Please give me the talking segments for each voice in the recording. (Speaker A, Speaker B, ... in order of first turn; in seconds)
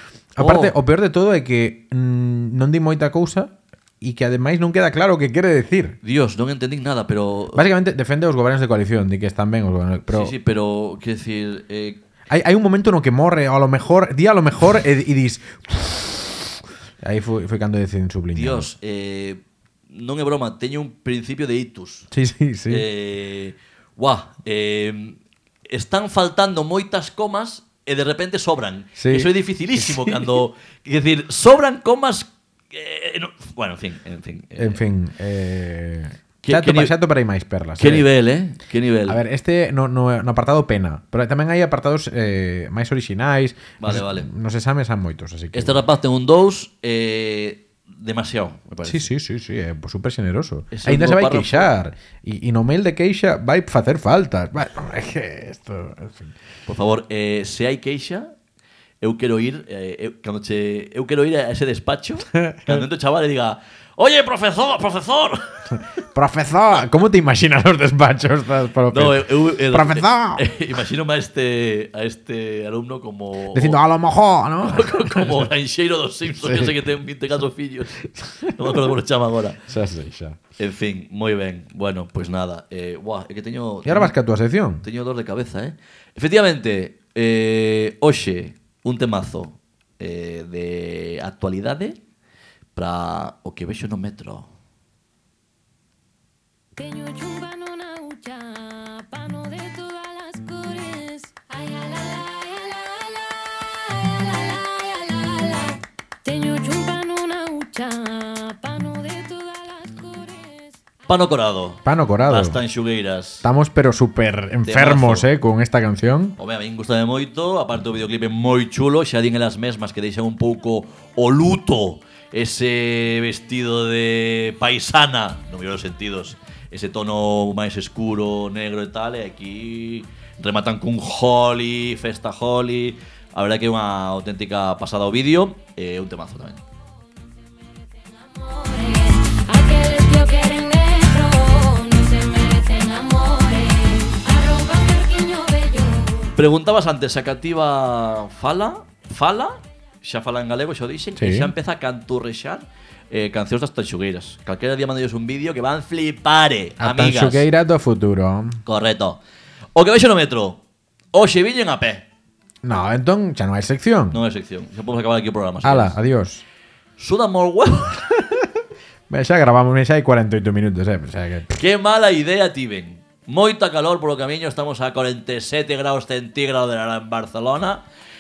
Speaker A: 0.3-6.0, 7.5-10.3, 12.3-18.7, 22.1-22.9, 29.0-30.3, 34.6-38.1, 39.1-45.8, 48.8-56.3, 62.3-62.8, 66.1-70.4, 73.5-75.5, 76.3-76.8, 78.2-78.5, 79.7-80.4, 83.8-84.8, 111.8-112.6, 113.4-116.3, 151.2-151.5, 156.8-158.6, 162.6-164.2, 165.6-166.4, 168.1-168.4, 169.1-171.6
Speaker B: 0.4-0.7, 6.0-7.6, 10.1-12.0, 18.3-22.1, 22.7-34.8, 36.4-36.9, 37.8-39.2, 43.8-44.3, 45.5-49.1, 50.7-51.7, 56.6-58.3, 59.0-65.4, 68.9-73.8, 74.6-79.6, 80.6-84.1, 84.8-92.0, 92.7-94.5, 111.1-113.4, 114.6-115.3, 116.4-136.6, 146.3-157.5, 158.7-159.2, 159.7-160.6, 161.1-162.0, 164.1-166.0, 167.0-168.1, 171.6-177.8
Speaker C: 96.8-110.8, 137.4-146.3